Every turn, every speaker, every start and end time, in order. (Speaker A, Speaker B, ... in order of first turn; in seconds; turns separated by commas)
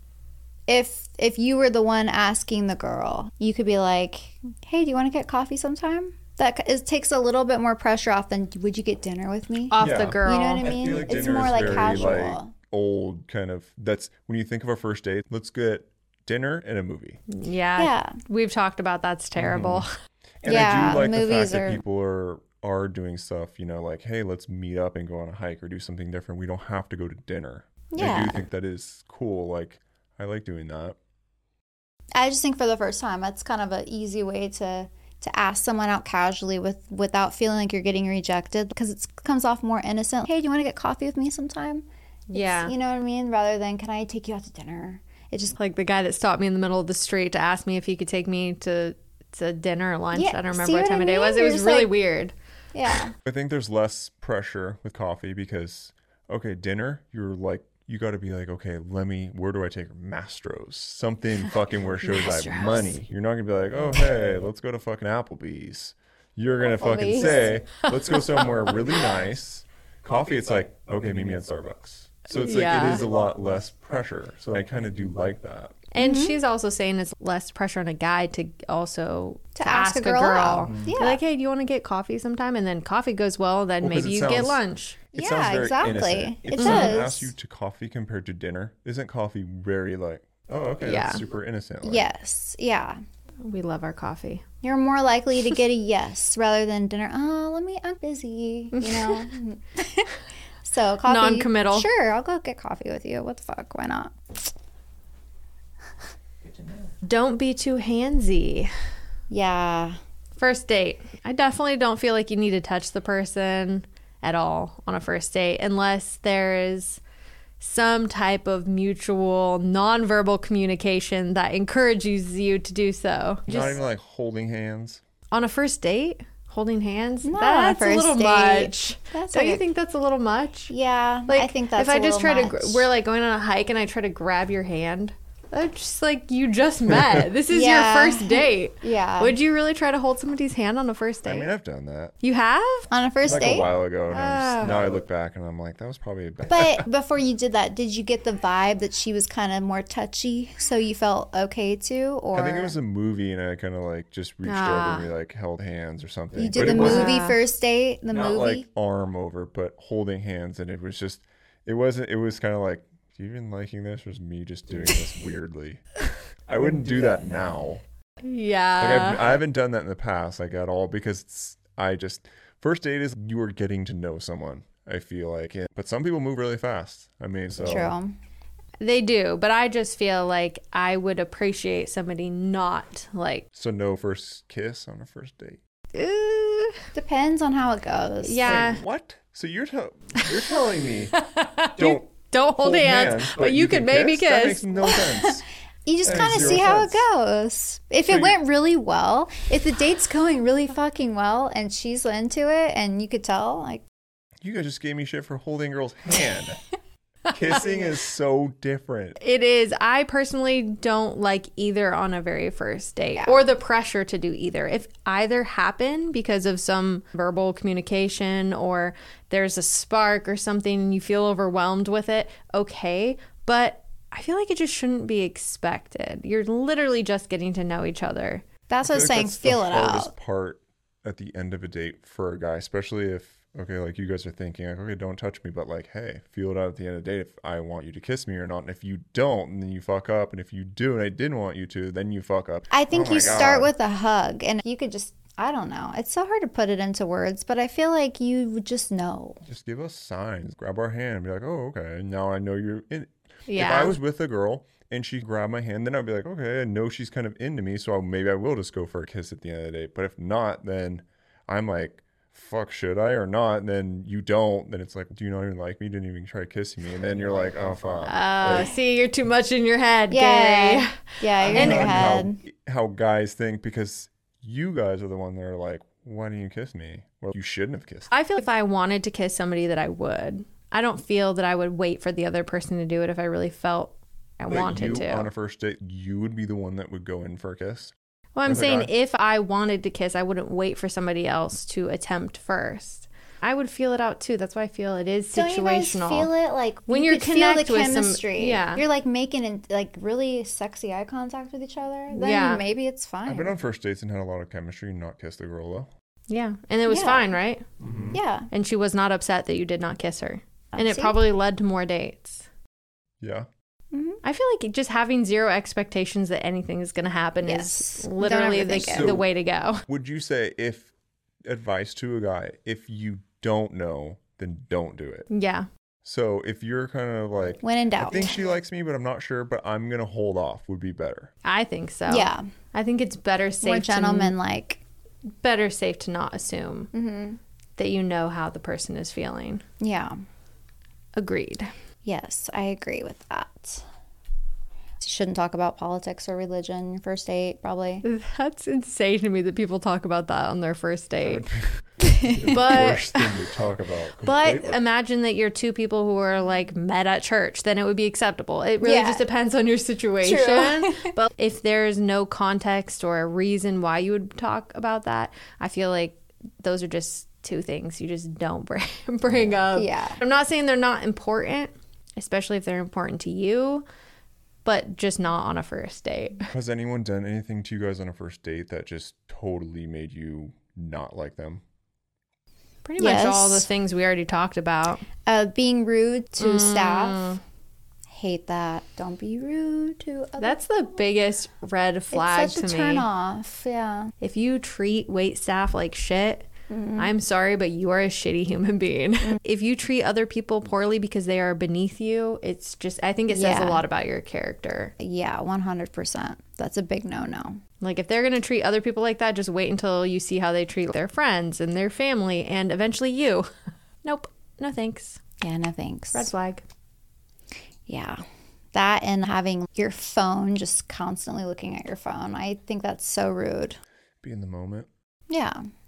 Speaker A: 0.7-12.5, Speaker B: 9.7-11.0, Speaker C: 9.8-17.2, Speaker B: 17.3-19.9, Speaker A: 17.8-18.2, Speaker C: 19.4-19.8, Speaker C: 20.4-30.9, Speaker A: 20.4-21.8, Speaker A: 27.9-28.4, Speaker A: 32.1-45.5, Speaker B: 42.3-42.7, Speaker B: 45.5-52.3, Speaker A: 50.1-51.9, Speaker A: 52.7-53.1, Speaker C: 53.2-75.8, Speaker B: 62.0-62.9, Speaker A: 66.6-67.5, Speaker B: 67.8-68.5, Speaker B: 72.3-73.0, Speaker B: 75.9-85.0, Speaker A: 76.0-76.4, Speaker A: 79.5-81.2, Speaker C: 80.7-80.9, Speaker C: 83.8-84.6, Speaker C: 85.1-92.1, Speaker A: 85.1-87.3, Speaker B: 86.6-87.0, Speaker B: 90.8-91.2, Speaker A: 91.8-93.0, Speaker B: 93.4-94.4, Speaker A: 94.6-100.1, Speaker B: 98.7-99.3, Speaker A: 100.6-104.5, Speaker B: 101.1-101.9, Speaker B: 107.0-108.7, Speaker A: 109.3-110.0, Speaker B: 110.4-117.0, Speaker B: 117.6-123.8, Speaker C: 123.5-125.0, Speaker B: 125.3-130.7, Speaker A: 127.2-129.6, Speaker A: 130.7-132.9, Speaker B: 131.3-141.5, Speaker C: 136.9-137.2, Speaker A: 137.5-139.4, Speaker C: 141.2-142.1, Speaker B: 142.2-142.9, Speaker A: 142.9-143.7, Speaker C: 143.2-146.9, Speaker B: 144.1-144.9, Speaker A: 146.5-152.7, Speaker C: 152.3-157.1, Speaker B: 154.4-155.1, Speaker A: 156.3-158.7, Speaker B: 156.6-157.4, Speaker C: 158.1-167.8, Speaker B: 168.2-169.2, Speaker C: 168.8-177.9, Speaker A: 177.6-178.1, Speaker B: 178.8-183.4, Speaker C: 183.5-185.6, Speaker B: 185.9-186.8, Speaker A: 186.9-188.7, Speaker B: 188.2-188.8, Speaker C: 188.4-191.2, Speaker B: 191.1-194.6, Speaker C: 191.7-195.5, Speaker A: 194.8-195.3, Speaker A: 195.8-203.8, Speaker C: 196.0-197.0, Speaker C: 198.1-198.3, Speaker C: 204.4-206.6, Speaker C: 207.3-209.2, Speaker B: 209.2-228.4, Speaker A: 213.2-213.4, Speaker A: 228.7-230.1, Speaker C: 228.8-243.7, Speaker A: 242.7-249.4, Speaker C: 249.4-268.7, Speaker B: 253.5-253.9, Speaker B: 268.1-272.1, Speaker A: 270.1-272.4, Speaker C: 271.4-278.1, Speaker B: 278.1-285.3, Speaker C: 284.5-287.9, Speaker B: 288.4-296.3, Speaker C: 288.4-288.9, Speaker A: 295.3-303.5, Speaker B: 296.9-298.8, Speaker B: 302.1-302.6, Speaker C: 303.2-305.9, Speaker B: 306.3-307.6, Speaker A: 306.9-307.3, Speaker C: 307.8-308.2, Speaker A: 308.1-308.5, Speaker B: 308.5-312.5, Speaker A: 310.7-311.2, Speaker C: 313.2-313.5, Speaker A: 313.9-314.2, Speaker B: 314.2-319.8, Speaker A: 317.4-319.1, Speaker C: 318.8-319.3, Speaker C: 319.9-320.9, Speaker C: 321.4-325.3, Speaker B: 325.3-325.7, Speaker C: 326.0-331.3, Speaker A: 327.6-328.4, Speaker B: 331.4-334.3, Speaker A: 332.1-332.5, Speaker A: 333.6-334.8, Speaker B: 335.4-336.9, Speaker A: 336.9-337.4, Speaker B: 337.8-339.6, Speaker A: 339.8-340.1, Speaker B: 341.2-341.7, Speaker A: 342.0-343.8, Speaker A: 345.0-348.0, Speaker B: 348.0-351.4, Speaker C: 351.2-354.8, Speaker A: 352.0-352.6, Speaker B: 352.5-353.4, Speaker B: 354.2-373.8, Speaker A: 358.8-359.2, Speaker A: 360.2-361.1, Speaker A: 369.7-370.2, Speaker B: 374.6-376.5, Speaker C: 376.5-381.6, Speaker B: 382.8-385.0, Speaker A: 383.0-383.7, Speaker A: 385.2-387.4, Speaker B: 386.4-387.4, Speaker A: 388.1-390.6, Speaker B: 390.4-393.1, Speaker A: 392.1-394.1, Speaker B: 394.2-404.9, Speaker A: 396.7-397.1, Speaker A: 403.3-403.8, Speaker A: 405.0-407.6, Speaker B: 407.8-413.5, Speaker B: 414.0-415.2, Speaker A: 415.4-416.3, Speaker B: 416.1-416.6, Speaker A: 417.9-418.2, Speaker A: 418.7-423.8, Speaker C: 424.2-424.9, Speaker A: 425.3-425.6